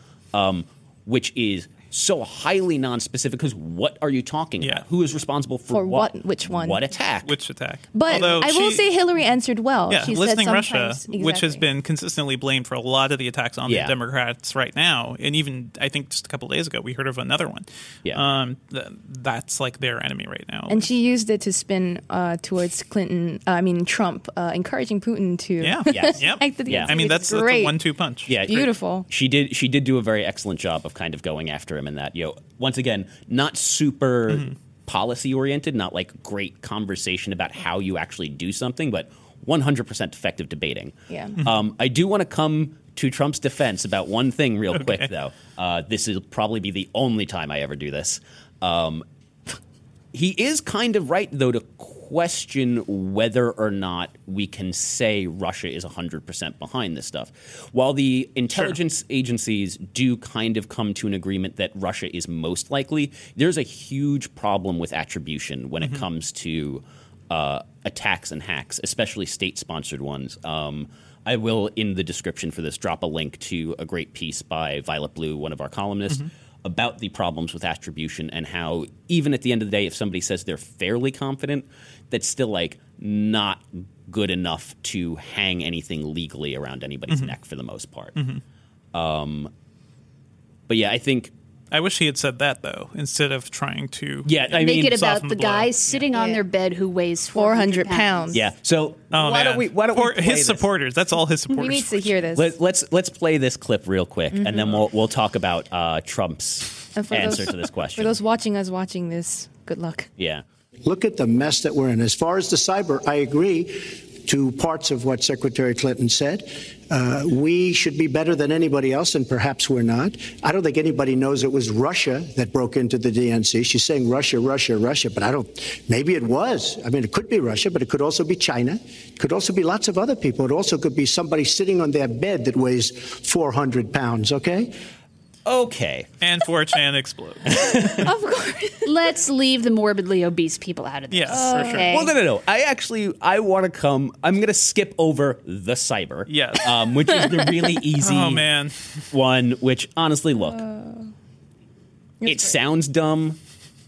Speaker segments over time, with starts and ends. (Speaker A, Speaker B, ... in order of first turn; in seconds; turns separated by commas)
Speaker A: 0.3-7.4, Speaker B: 5.7-6.8, Speaker C: 7.2-8.9, Speaker B: 7.9-11.6, Speaker C: 9.9-20.9, Speaker A: 13.7-13.9, Speaker B: 20.7-27.8, Speaker C: 25.6-28.4, Speaker A: 25.9-26.9, Speaker A: 28.3-49.0, Speaker B: 28.4-29.1, Speaker B: 41.1-41.4, Speaker A: 50.1-88.2, Speaker C: 88.2-88.4, Speaker A: 88.9-89.5, Speaker A: 90.7-91.3, Speaker C: 91.7-96.0, Speaker A: 94.3-95.1, Speaker D: 94.5-98.4, Speaker B: 96.1-96.4, Speaker B: 97.3-98.4, Speaker A: 98.3-100.7, Speaker C: 99.1-102.2, Speaker B: 101.5-102.5, Speaker A: 102.3-108.1, Speaker B: 104.3-104.8, Speaker B: 107.0-110.1, Speaker A: 110.2-110.4, Speaker E: 110.8-134.8, Speaker A: 135.4-136.1, Speaker C: 136.2-137.5, Speaker A: 137.5-138.1, Speaker B: 138.0-138.9, Speaker D: 138.8-142.1, Speaker C: 141.1-141.9, Speaker B: 141.3-142.0, Speaker A: 141.9-148.5, Speaker C: 146.3-146.8, Speaker C: 148.0-149.0, Speaker A: 149.1-150.6, Speaker B: 150.4-151.1, Speaker B: 152.2-152.6, Speaker A: 152.2-153.4